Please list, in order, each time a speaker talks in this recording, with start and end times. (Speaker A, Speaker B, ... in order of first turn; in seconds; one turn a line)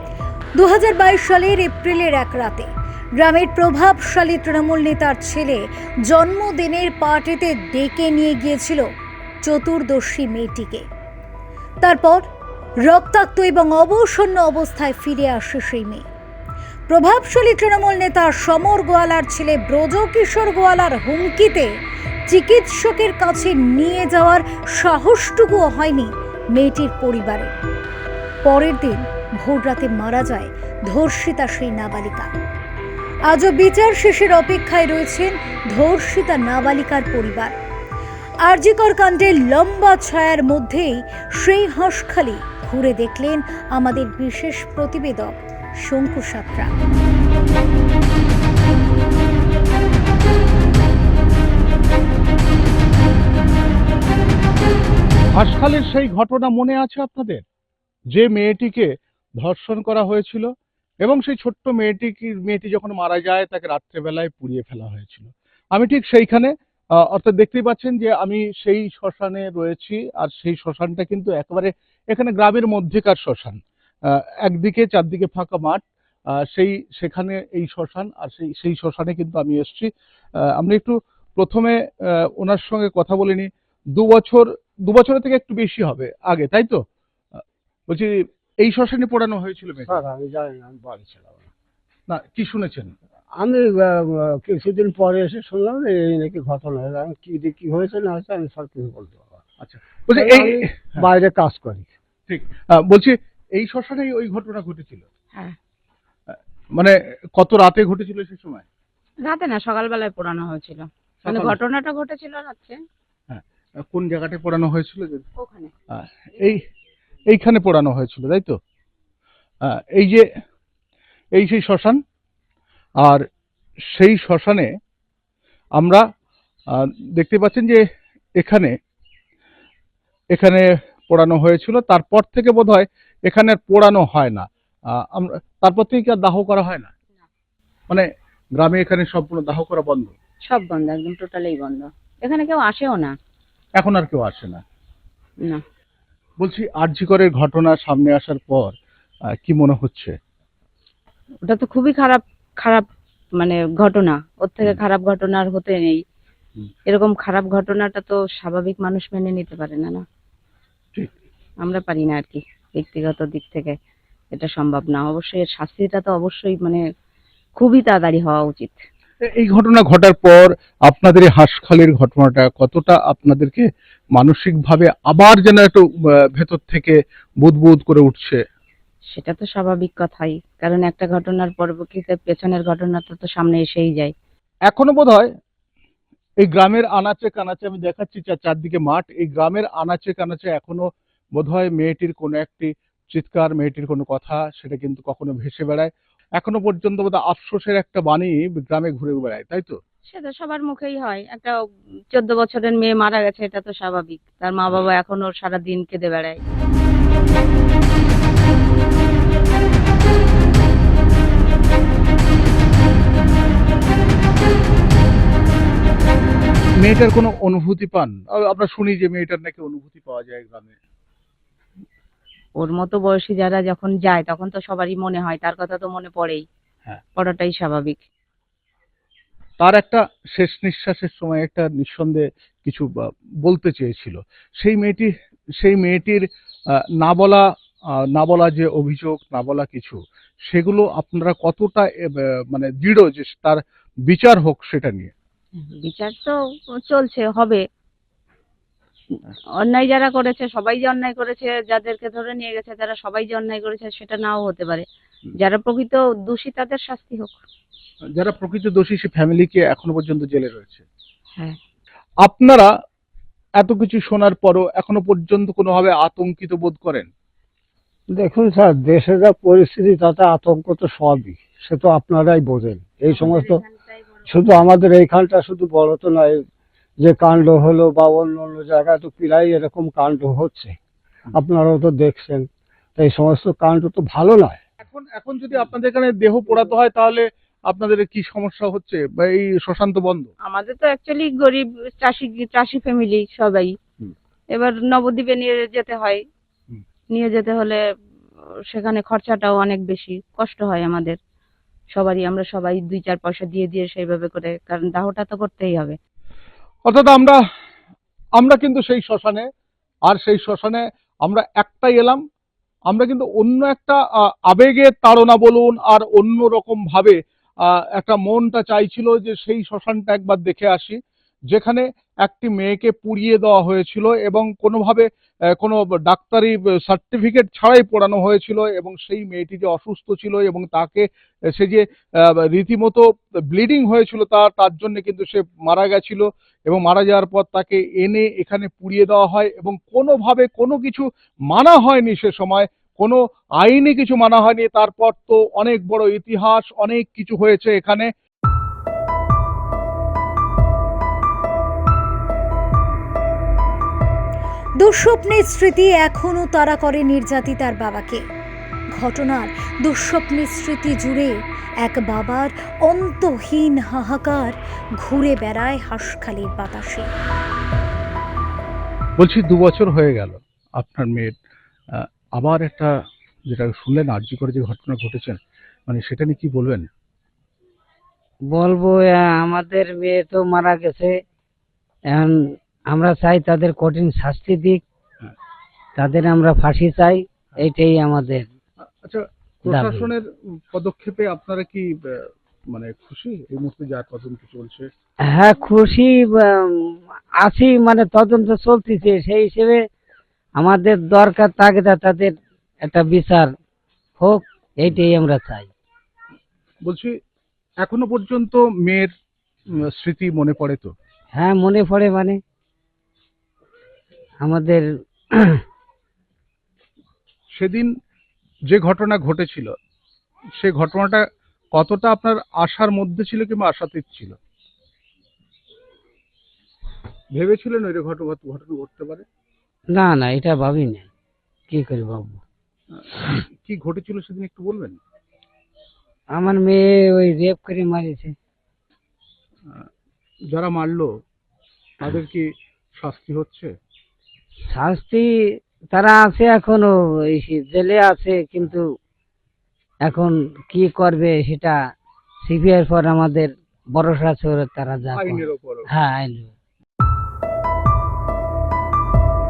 Speaker A: 0.6-8.9
Speaker A: 9.4-10.9
Speaker A: 11.8-12.3
Speaker A: 12.9-16.1
Speaker A: 16.9-21.7
Speaker A: 22.3-27.5
Speaker A: 28.4-32.3
Speaker A: 33.3-37.5
Speaker A: 38.4-46.7
Speaker B: 55.4-57.4
Speaker B: 58.1-58.9
Speaker B: 59.4-60.5
Speaker B: 61.0-66.5
Speaker B: 67.1-73.6
Speaker B: 74.1-75.8
Speaker B: 76.5-86.8
Speaker B: 87.9-90.0
Speaker C: 89.9-91.5
Speaker B: 92.1-92.9
Speaker C: 93.4-99.3
Speaker B: 99.6-101.0
Speaker C: 100.1-101.9
Speaker B: 102.3-105.0
Speaker B: 106.3-108.7
Speaker D: 109.3-112.8
Speaker B: 111.2-111.6
Speaker B: 113.3-115.3
Speaker D: 115.4-115.7
Speaker B: 115.9-116.6
Speaker B: 117.3-118.6
Speaker B: 119.6-120.2
Speaker B: 121.4-122.0
Speaker B: 123.9-124.7
Speaker B: 126.7-127.8
Speaker B: 128.4-128.7
Speaker B: 130.3-134.5
Speaker B: 135.1-136.9
Speaker B: 137.9-140.1
Speaker D: 140.5-143.1
Speaker B: 143.8-144.6
Speaker B: 146.4-148.8
Speaker B: 149.4-150.2
Speaker D: 151.5-156.0
Speaker D: 156.9-160.0
Speaker D: 161.6-163.7
Speaker D: 164.3-166.8
Speaker D: 167.6-168.8
Speaker B: 169.2-178.4
Speaker D: 179.1-184.1
Speaker B: 184.7-185.3
Speaker B: 186.4-199.8
Speaker D: 200.1-201.6
Speaker D: 202.1-206.4
Speaker B: 216.8-220.8
Speaker D: 222.6-226.4
Speaker D: 227.2-228.0
Speaker B: 229.6-232.9
Speaker B: 233.4-236.2
Speaker B: 237.0-237.4
Speaker B: 238.1-241.9
Speaker B: 242.5-245.1
Speaker D: 245.7-246.3
Speaker D: 246.8-247.6
Speaker D: 249.6-254.9
Speaker D: 255.4-257.4
Speaker B: 258.2-260.9
Speaker B: 262.2-262.7
Speaker B: 263.6-267.1
Speaker C: 268.1-273.6
Speaker D: 273.1-274.0
Speaker C: 274.3-276.4
Speaker C: 277.0-280.8
Speaker C: 281.3-284.6
Speaker B: 284.8-290.3
Speaker D: 290.4-293.7
Speaker D: 294.5-296.2
Speaker D: 297.1-297.8
Speaker D: 298.7-301.2
Speaker D: 301.9-306.0
Speaker B: 306.9-307.4
Speaker B: 308.4-309.5
Speaker B: 310.1-312.2
Speaker B: 312.9-321.0
Speaker B: 321.5-348.1
Speaker A: 354.8-358.2
Speaker A: 359.0-367.1
Speaker B: 369.2-371.3
Speaker B: 371.9-372.9
Speaker B: 373.5-376.9
Speaker E: 378.5-381.1
Speaker E: 382.1-384.8
Speaker E: 386.0-388.5
Speaker B: 389.0-394.9
Speaker E: 389.7-390.1
Speaker E: 395.3-399.8
Speaker E: 400.6-402.3
Speaker E: 402.8-403.5
Speaker E: 404.2-405.7
Speaker B: 406.8-407.1
Speaker B: 407.8-409.1
Speaker B: 409.9-410.9
Speaker E: 411.3-412.4
Speaker E: 414.4-415.6
Speaker B: 417.6-417.9
Speaker B: 418.7-419.7
Speaker B: 420.6-421.2
Speaker B: 421.7-424.4
Speaker B: 427.3-429.2
Speaker E: 429.9-431.1
Speaker E: 431.7-432.4
Speaker B: 432.9-435.0
Speaker E: 436.4-438.4
Speaker B: 440.5-441.1
Speaker B: 442.0-443.7
Speaker E: 444.7-445.3
Speaker E: 445.9-448.9
Speaker E: 450.1-451.8
Speaker E: 452.5-456.5
Speaker B: 455.1-455.9